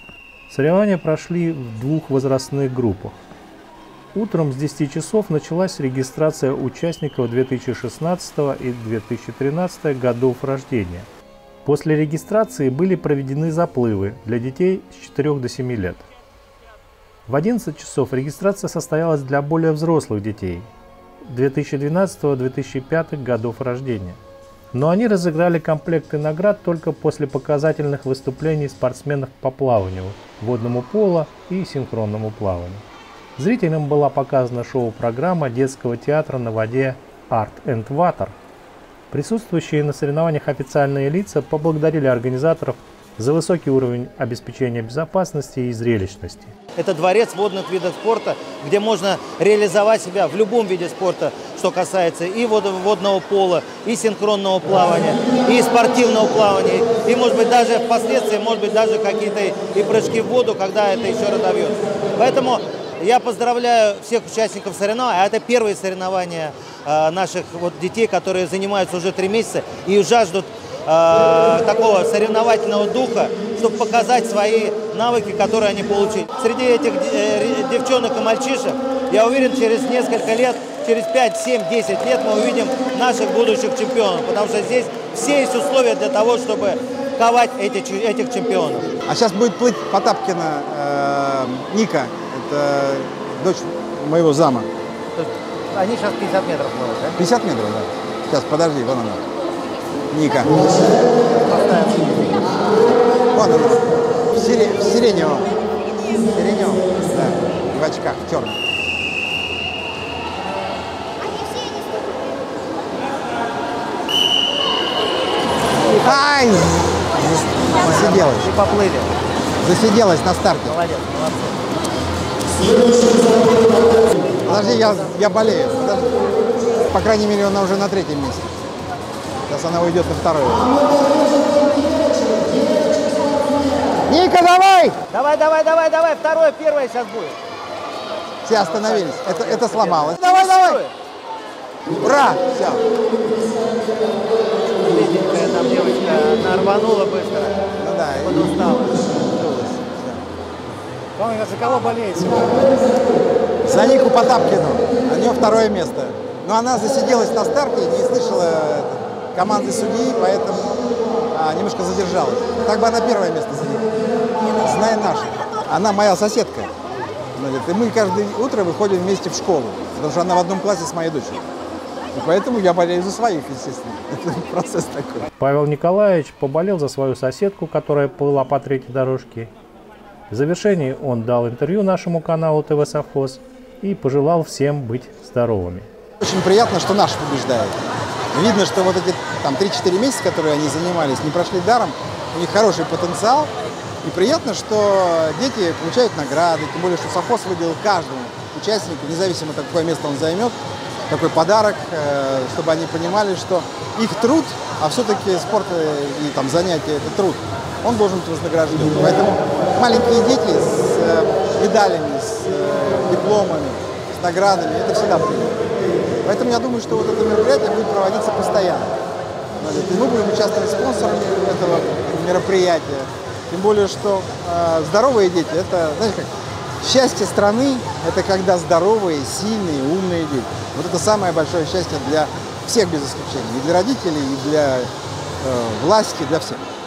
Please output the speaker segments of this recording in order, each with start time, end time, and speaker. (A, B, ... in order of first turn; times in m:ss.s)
0:00.5-0:03.2 A
0:04.1-0:11.1 A
0:11.6-0:16.0 A
0:17.3-0:20.7 A
0:21.2-0:24.2 A
0:24.7-0:32.8 A
0:33.4-0:38.3 A
0:39.1-0:46.5 A
0:46.8-1:29.0 B
1:29.0-1:34.7 C
1:35.1-1:37.2 B
1:37.2-1:39.2 C
1:40.1-1:40.6 C
1:41.4-1:42.5 B
1:43.3-1:45.5 C
1:46.3-1:46.8 B
1:47.0-1:48.6 C
1:56.0-1:58.5 C
1:57.6-1:59.1 B
1:59.6-2:00.8 C
2:00.6-2:01.6 B
2:04.4-2:05.1 B
2:04.4-2:06.2 C
2:06.7-2:08.5 C
2:09.5-2:10.9 C
2:14.0-2:15.0 C
2:15.1-2:17.4 B
2:18.4-2:20.8 C
2:18.4-2:20.9 B
2:21.9-2:22.8 C
2:24.7-2:27.6 B
2:27.8-2:30.2 C
2:28.2-2:29.1 B
2:31.2-2:32.7 B
2:33.6-2:40.7 C
2:41.3-2:43.9 C
2:44.6-2:46.7 C
2:47.3-2:51.4 C
2:52.1-2:55.3 C
2:55.4-2:59.5 A
3:00.3-3:05.9 A
3:06.2-3:07.8 C
3:08.3-3:13.5 C
3:14.0-3:20.6 C
3:21.1-3:35.6 C
3:36.2-3:38.9 C
3:39.6-3:56.6 C